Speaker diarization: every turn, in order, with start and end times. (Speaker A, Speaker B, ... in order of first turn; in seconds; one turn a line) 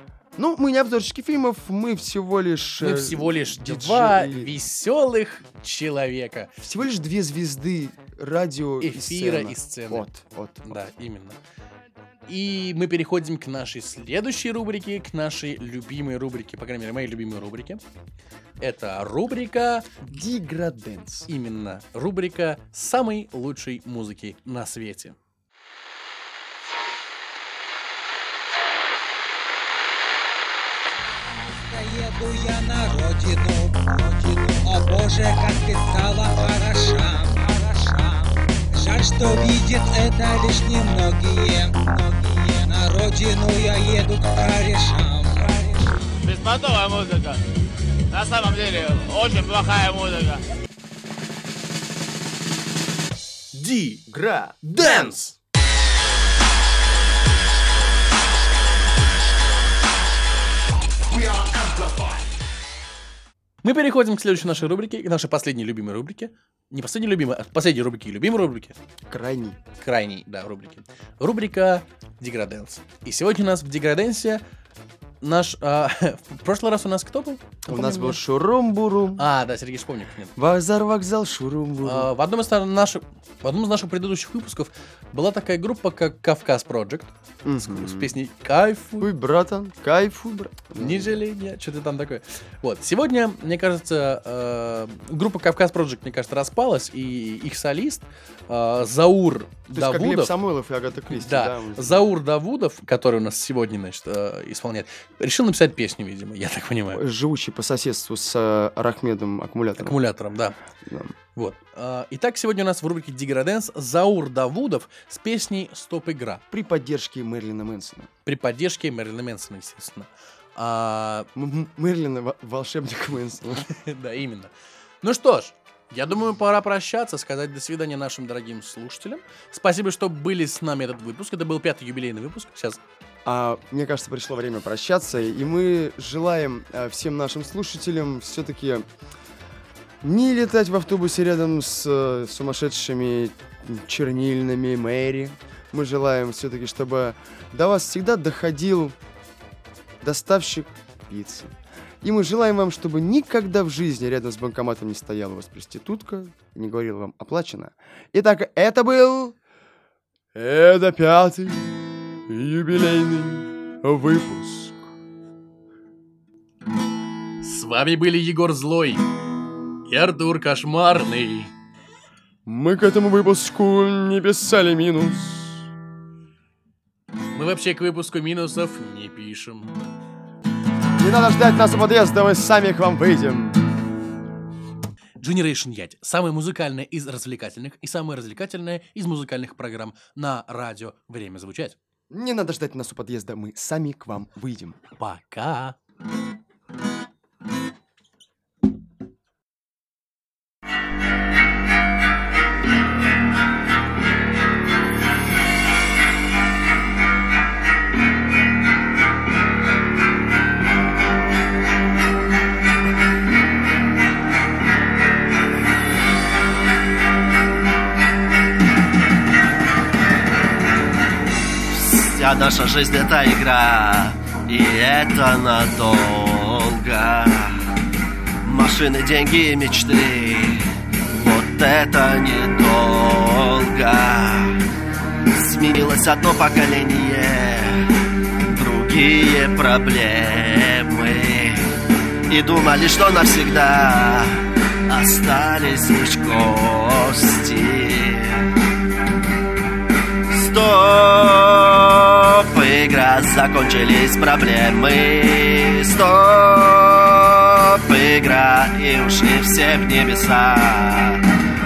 Speaker A: 0.4-4.6
Speaker B: 2.8-6.5
Speaker A: 6.6-10.8
Speaker B: 8.8-10.1
Speaker B: 10.7-11.4
Speaker B: 12.3-17.8
Speaker B: 18.6-19.9
Speaker A: 20.0-21.3
Speaker B: 21.3-25.2
Speaker C: 31.7-46.0
Speaker D: 46.2-47.4
Speaker D: 48.1-50.4
Speaker B: 53.5-54.1
Speaker A: 54.1-55.2
Speaker B: 54.8-55.3
Speaker A: 61.1-62.3
Speaker B: 63.6-68.8
Speaker A: 69.1-69.6
Speaker B: 69.8-74.4
Speaker B: 75.2-78.2
Speaker A: 77.7-79.3
Speaker B: 79.2-80.3
Speaker A: 80.4-82.1
Speaker B: 81.8-89.1
Speaker A: 87.5-88.2
Speaker A: 89.0-91.2
Speaker B: 90.8-100.3
Speaker A: 99.7-102.1
Speaker B: 101.1-107.0
Speaker A: 106.9-110.0
Speaker B: 109.8-110.6
Speaker A: 110.8-111.2
Speaker B: 111.4-116.4
Speaker A: 116.5-118.1
Speaker B: 118.3-121.3
Speaker A: 121.3-123.7
Speaker B: 123.7-132.8
Speaker A: 133.2-138.9
Speaker A: 140.0-149.0
Speaker A: 150.0-159.4
Speaker A: 160.3-164.9
Speaker B: 167.4-169.0
Speaker B: 169.9-171.5
Speaker A: 172.4-175.7
Speaker B: 177.3-179.8
Speaker A: 181.0-183.6
Speaker B: 185.2-191.8
Speaker A: 192.1-194.8
Speaker B: 195.0-195.8
Speaker E: 221.7-227.7
Speaker E: 228.4-234.6
Speaker E: 235.3-237.9
Speaker E: 238.5-241.7
Speaker E: 242.3-248.5
Speaker E: 250.3-261.2